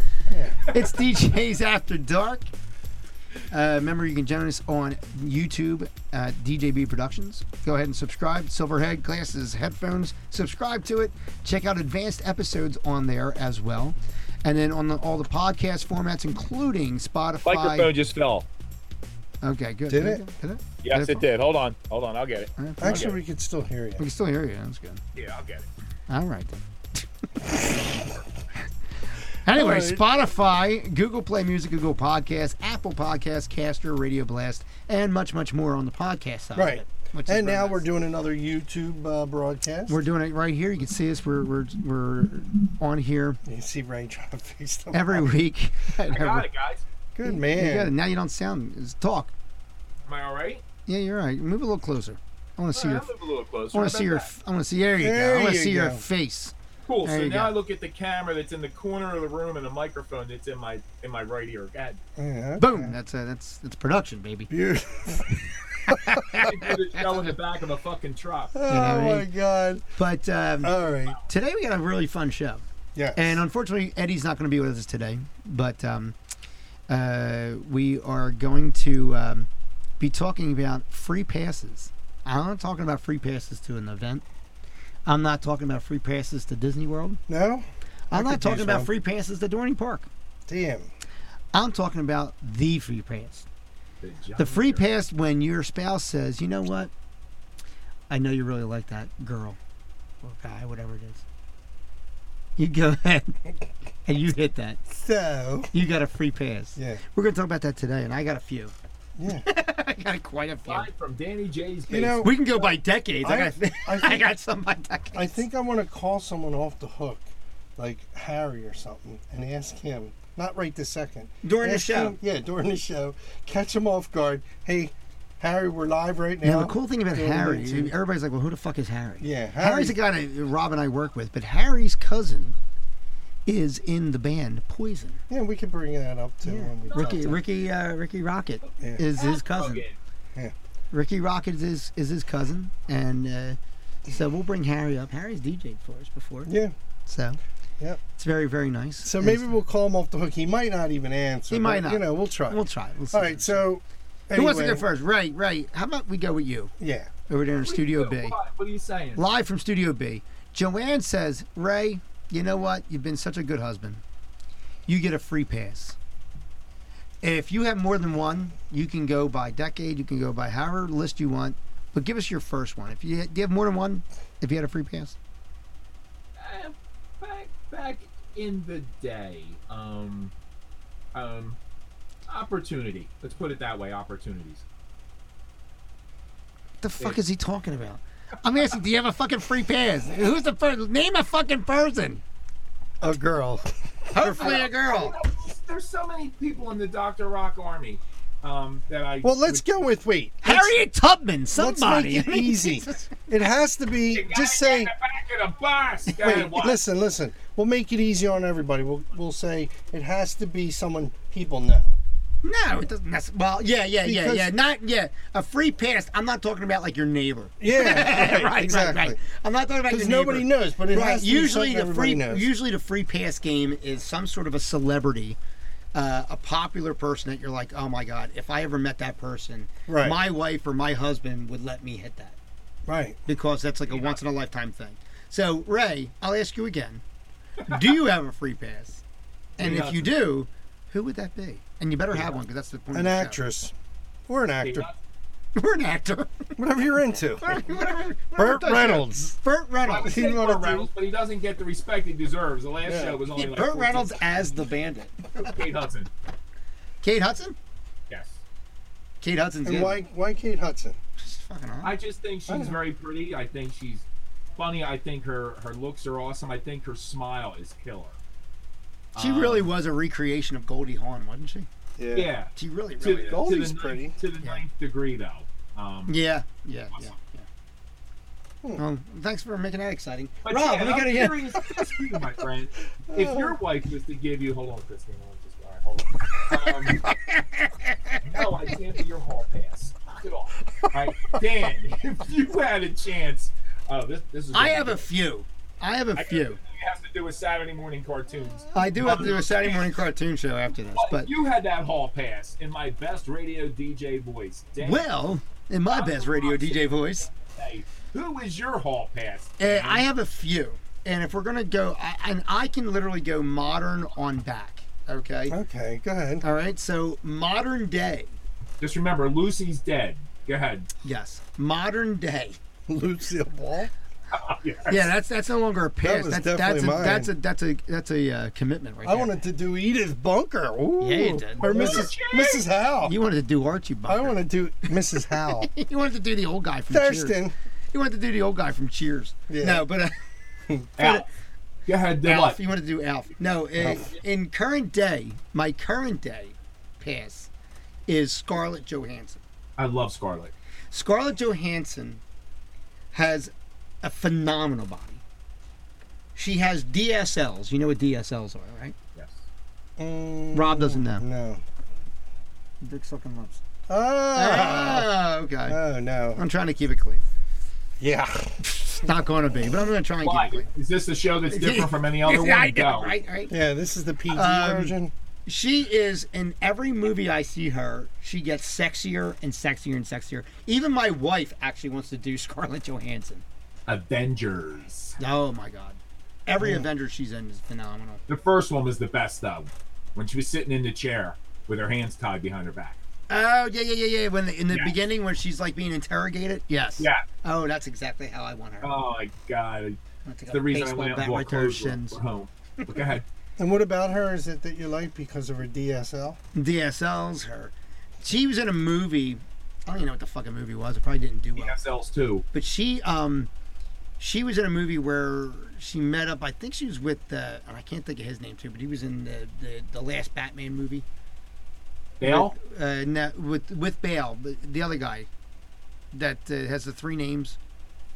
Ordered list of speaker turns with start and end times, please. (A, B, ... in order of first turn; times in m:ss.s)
0:00.3-0:00.6 A
0:00.7-0:02.5 B
0:03.5-0:17.9 B
0:17.4-0:18.5 C
0:19.4-0:21.2 B
0:19.9-0:20.2 A
0:20.8-0:23.2 C
0:22.6-0:23.1 B
0:22.8-0:24.0 A
0:24.0-0:25.0 B
0:25.1-0:25.7 C
0:26.1-0:28.1 B
0:29.4-0:37.8 B
0:29.5-0:30.0 A
0:36.5-0:40.0 A
0:39.9-0:43.4 B
0:43.4-0:45.3 A
0:44.9-0:46.4 B
0:46.1-0:46.8 C
0:47.1-0:47.9 A
0:47.2-0:49.3 B
0:50.0-0:50.6 C
0:50.9-0:53.1 B
0:52.7-0:54.3 C
0:53.7-0:57.5 B
0:55.0-0:56.0 A
0:56.8-1:02.0 C
1:02.2-1:02.9 A
1:02.6-1:04.5 B
1:04.5-1:06.4 A
1:05.9-1:07.1 B
1:06.4-1:08.5 C
1:08.5-1:09.8 A
1:08.7-1:09.3 B
1:10.0-1:10.7 B
1:10.6-1:11.2 A
1:11.3-1:16.2 B
1:12.9-1:13.4 A
1:16.9-1:24.2 B
1:25.0-1:27.2 B
1:27.3-1:28.9 A
1:28.1-1:30.1 B
1:30.5-1:30.9 A
1:31.5-1:33.5 B
1:34.0-1:34.8 C
1:34.4-1:36.9 B
1:38.1-1:39.6 B
1:40.2-1:41.2 B
1:42.6-1:43.5 B
1:44.0-1:44.8 B
1:44.9-1:45.7 A
1:45.7-1:48.7 B
1:46.8-1:47.0 A
1:49.2-1:49.4 A
1:49.2-1:50.9 B
1:50.6-1:52.7 C
1:51.9-1:52.3 A
1:52.2-1:55.3 B
1:53.2-1:54.3 A
1:55.1-1:57.2 A
1:57.8-2:07.9 A
2:01.4-2:02.2 B
2:06.4-2:12.6 B
2:09.2-2:10.0 A
2:13.4-2:15.2 B
2:15.3-2:17.4 A
2:16.4-2:19.8 B
2:19.1-2:20.0 C
2:20.9-2:26.5 B
2:26.4-2:26.7 A
2:27.0-2:27.4 B
2:28.2-2:29.5 B
2:29.0-2:34.8 A
2:31.5-2:33.6 B
2:34.3-2:36.7 B
2:36.8-2:37.1 A
2:37.3-2:38.4 B
2:37.6-2:39.2 C
2:39.2-2:44.0 B
2:44.9-2:46.0 B
2:47.2-2:55.2 B
2:56.4-3:00.3 C
3:01.1-3:01.6 C
3:02.3-3:04.6 C
3:06.8-3:12.2 B
3:13.0-3:14.6 A
3:14.1-3:15.2 B
3:14.3-3:19.7 C
3:19.2-3:20.8 A
3:20.4-3:23.1 B
3:21.5-3:24.9 A
3:24.1-3:26.8 C
3:26.2-3:32.0 A
3:32.4-3:45.4 B
3:34.0-3:34.5 A
3:37.6-3:39.2 A
3:39.9-3:42.5 A
3:45.9-3:52.4 B
3:49.9-3:50.2 A
3:52.9-3:53.2 A
3:53.3-3:57.0 B
3:53.9-3:54.2 C
3:57.6-3:59.0 B
3:59.6-4:03.4 B
3:59.6-4:00.1 C
4:02.9-4:03.7 A
4:04.3-4:04.9 A
4:04.6-4:05.0 C
4:05.6-4:06.5 B
4:06.6-4:07.6 A
4:07.4-4:10.1 B
4:08.3-4:09.4 A
4:09.8-4:14.3 C
4:10.0-4:10.9 A
4:12.8-4:13.2 A
4:13.3-4:15.5 B
4:15.3-4:16.1 C
4:17.0-4:17.6 B
4:18.1-4:18.4 C
4:19.2-4:20.0 B
4:19.6-4:21.0 A
4:21.2-4:21.9 B
4:21.8-4:28.2 C
4:22.5-4:22.8 A
4:29.1-4:29.7 C
4:29.2-4:31.7 B
4:32.0-4:32.3 A
4:32.1-4:36.2 C
4:32.5-4:33.4 B
4:33.0-4:34.2 A
4:36.1-4:37.5 B
4:38.7-4:41.8 B
4:40.4-4:47.0 C
4:43.1-4:43.6 A
4:46.9-4:48.5 B
4:48.2-4:55.1 C
4:54.5-4:56.6 B
4:56.1-5:00.0 C
4:58.7-5:01.3 B
5:01.0-5:05.1 C
5:04.8-5:07.3 B
5:05.9-5:10.0 C
5:09.6-5:15.6 B
5:15.5-5:16.4 A
5:16.4-5:18.4 B
5:18.8-5:20.9 C
5:21.0-5:22.6 B
5:22.9-5:23.9 A
5:24.3-5:25.1 C
5:24.9-5:29.3 B
5:26.0-5:27.3 A
5:29.0-5:33.2 A
5:31.0-5:32.1 B
5:31.6-5:32.7 C
5:33.0-5:34.4 B
5:34.1-5:35.7 A
5:34.9-5:37.4 B
5:36.9-5:37.5 A
5:37.9-5:40.2 B
5:39.5-5:39.8 A
5:41.0-5:41.2 C
5:41.0-5:41.2 B
5:41.9-5:42.6 C
5:42.2-5:47.5 B
5:43.8-5:44.1 A
5:48.1-5:49.4 B
5:49.8-5:50.5 C
5:50.9-5:52.2 B
5:53.1-5:55.2 B
5:56.3-5:59.0 B
5:59.2-5:59.4 C
6:00.0-6:01.6 A
6:00.5-6:01.2 B
6:02.8-6:03.6 B
6:03.9-6:05.1 A
6:04.3-6:05.8 B
6:05.6-6:06.4 A
6:06.4-6:07.2 B
6:08.0-6:08.6 A
6:08.6-6:10.7 B
6:10.2-6:13.1 C
6:11.5-6:13.5 B
6:13.5-6:15.1 A
6:14.3-6:14.9 B
6:15.4-6:23.4 B
6:23.9-6:25.2 C
6:25.2-6:28.2 B
6:26.6-6:26.9 A
6:28.3-6:33.0 C
6:33.3-6:38.9 B
6:34.7-6:34.9 C
6:38.8-6:40.0 C
6:40.2-6:42.2 B
6:40.5-6:43.2 C
6:43.6-6:46.4 A
6:46.5-6:51.8 B
6:51.6-6:52.4 C
6:52.5-6:53.5 B
6:54.2-7:01.0 B
7:02.2-7:02.6 C
7:02.2-7:05.3 B
7:06.1-7:07.6 B